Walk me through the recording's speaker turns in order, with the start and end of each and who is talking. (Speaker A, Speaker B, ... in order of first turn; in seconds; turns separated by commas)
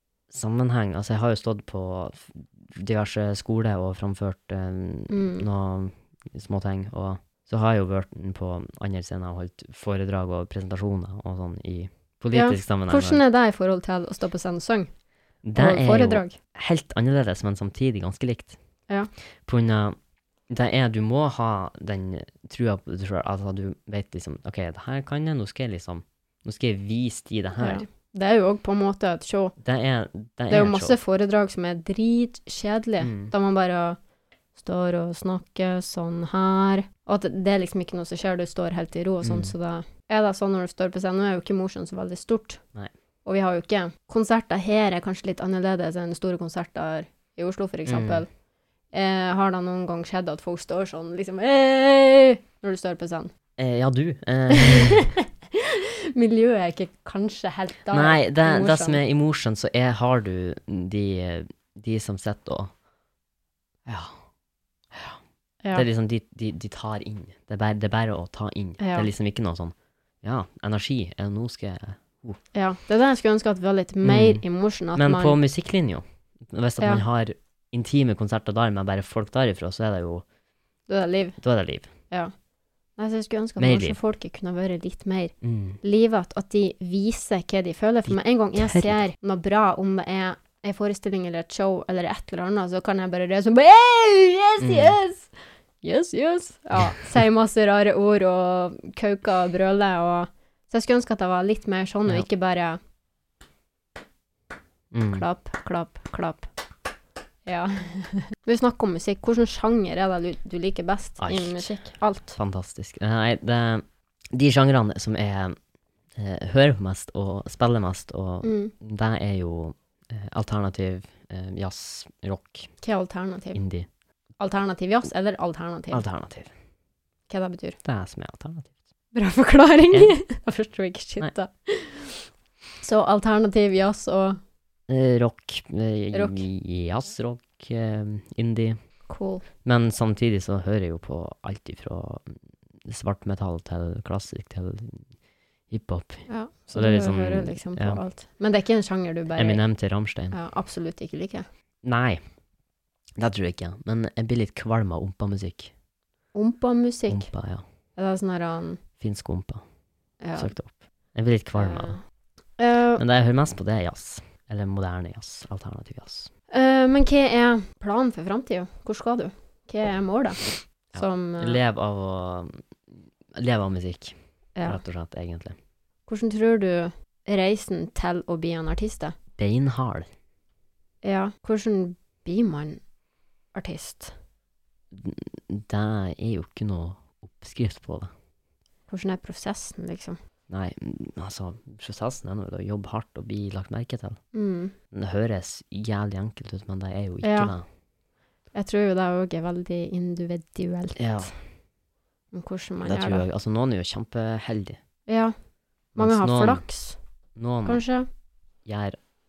Speaker A: 0.3-13.2, Speaker B: 5.1-5.5, Speaker B: 12.3-14.9, Speaker A: 15.4-18.6, Speaker B: 15.5-16.4, Speaker A: 19.4-20.0, Speaker A: 20.5-27.9, Speaker B: 27.6-29.6, Speaker A: 29.6-31.0, Speaker B: 30.5-34.0, Speaker A: 33.0-33.3, Speaker B: 34.6-42.6, Speaker A: 39.2-39.5, Speaker B: 43.2-48.3, Speaker A: 47.9-48.2, Speaker B: 48.9-53.3, Speaker A: 53.6-55.1, Speaker B: 54.5-59.0, Speaker A: 57.9-62.7, Speaker A: 63.9-64.2, Speaker A: 64.9-65.2, Speaker A: 65.7-72.4, Speaker B: 68.8-69.1, Speaker B: 72.5-75.4, Speaker A: 74.0-80.2, Speaker B: 80.9-81.4, Speaker A: 81.4-81.9, Speaker B: 83.0-102.8, Speaker A: 83.6-84.0, Speaker A: 85.4-85.8, Speaker A: 88.6-89.0, Speaker A: 94.6-95.0, Speaker A: 104.9-105.3, Speaker B: 105.1-106.5, Speaker B: 107.5-112.4, Speaker A: 111.2-115.6, Speaker A: 116.2-122.7, Speaker B: 118.4-118.7, Speaker B: 122.8-123.6, Speaker A: 123.5-123.9, Speaker B: 124.4-126.0, Speaker A: 125.9-126.5, Speaker B: 127.3-127.8, Speaker A: 127.8-128.7, Speaker B: 129.1-132.3, Speaker A: 129.9-130.2, Speaker B: 132.8-134.4, Speaker A: 134.9-138.8, Speaker B: 136.1-136.5, Speaker B: 139.1-139.4, Speaker A: 139.6-145.1, Speaker A: 145.7-148.0, Speaker B: 146.3-149.6, Speaker A: 149.4-150.4, Speaker B: 150.3-151.5, Speaker A: 151.8-152.2, Speaker A: 153.2-155.7, Speaker B: 156.3-157.3, Speaker A: 157.1-157.6, Speaker B: 157.9-158.8, Speaker A: 159.0-159.6, Speaker B: 160.2-160.5, Speaker A: 160.3-162.0, Speaker B: 161.6-162.0, Speaker B: 162.6-163.0, Speaker A: 163.0-166.3, Speaker B: 166.5-171.6, Speaker A: 170.9-175.6, Speaker B: 176.1-179.2, Speaker A: 179.4-180.1, Speaker B: 181.0-182.8, Speaker B: 183.5-184.1, Speaker A: 184.9-188.1, Speaker B: 188.9-190.2, Speaker A: 190.5-194.2, Speaker B: 194.3-194.8, Speaker A: 194.9-197.7, Speaker B: 197.2-197.6, Speaker B: 198.5-201.3, Speaker A: 201.0-201.3, Speaker B: 202.3-203.2, Speaker A: 202.8-204.8, Speaker B: 205.1-205.3, Speaker B: 205.9-207.0, Speaker A: 205.9-206.7, Speaker A: 207.4-207.8, Speaker B: 207.6-208.1, Speaker A: 208.7-209.0